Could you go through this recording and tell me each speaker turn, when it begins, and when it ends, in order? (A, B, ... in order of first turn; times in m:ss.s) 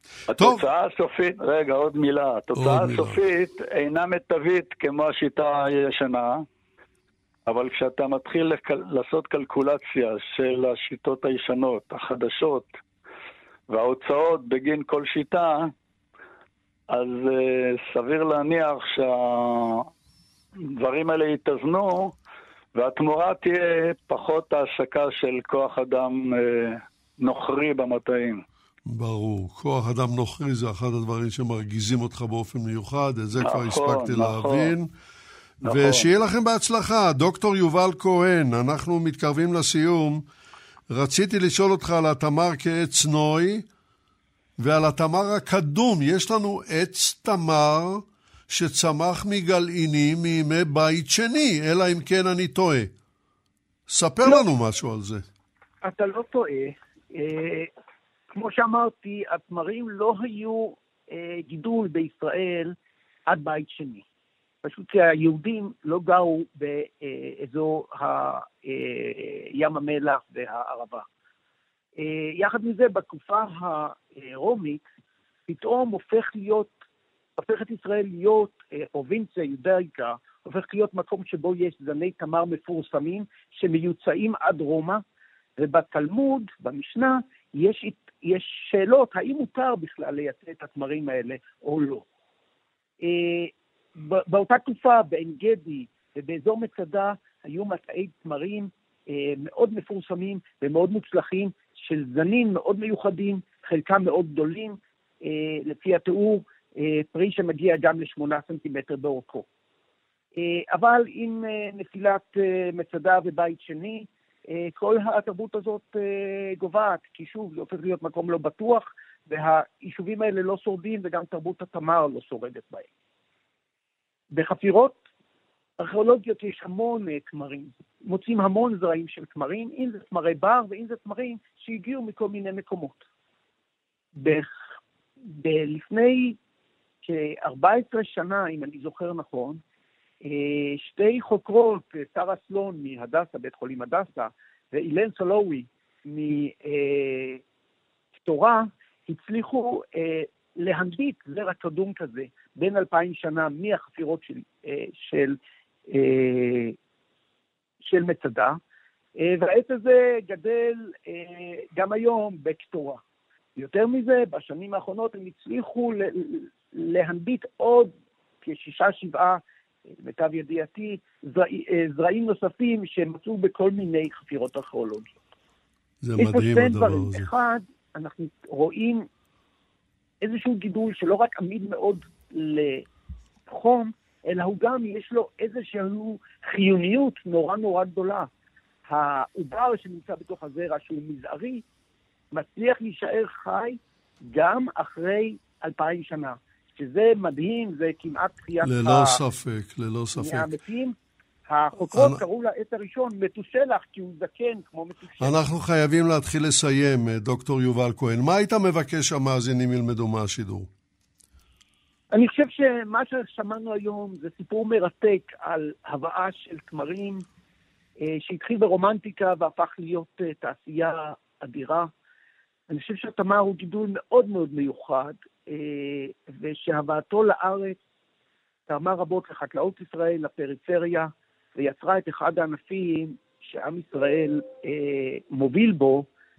0:00.3-0:06.4 A
0:00.4-0:00.6 B
0:02.5-0:03.2 B
0:07.5-0:12.7 A
0:13.7-0:15.7 A
0:16.9-0:19.9 A
0:20.7-0:22.1 A
0:22.7-0:28.4 A
0:28.9-0:34.9 B
0:33.4-0:34.7 A
0:35.6-0:36.1 A
0:35.6-0:40.2 B
0:40.9-0:43.6 B
0:44.6-0:52.9 B
0:53.9-0:55.2 B
0:55.8-0:57.7 C
0:58.3-1:02.7 C
1:03.3-1:04.0 C
1:04.6-1:11.0 C
1:12.0-1:14.8 C
1:15.5-1:16.7 C
1:17.4-1:25.0 C
1:25.6-1:32.0 C
1:33.0-1:49.4 C
1:50.4-2:02.9 C
2:04.3-2:05.0 C
2:05.8-2:13.1 C
2:14.2-2:14.5 C
2:15.3-2:16.4 C
2:17.0-2:19.6 C
2:20.2-2:27.4 C
2:28.2-2:35.4 C
2:35.9-2:36.8 C
2:37.8-2:38.6 C
2:39.2-2:43.0 C
2:43.6-2:49.4 C
2:50.0-2:55.1 C
2:56.0-2:57.3 B
2:56.2-2:59.1 C
3:00.2-3:02.8 C
3:03.5-3:08.3 C
3:08.8-3:11.6 C
3:12.3-3:19.2 C
3:18.6-3:20.6 B
3:20.1-3:20.9 C
3:21.5-3:25.4 C
3:21.9-3:22.2 B
3:25.2-3:30.7 B
3:32.1-3:37.2 C
3:38.0-3:41.9 C
3:42.7-3:47.8 C
3:48.7-3:56.1 C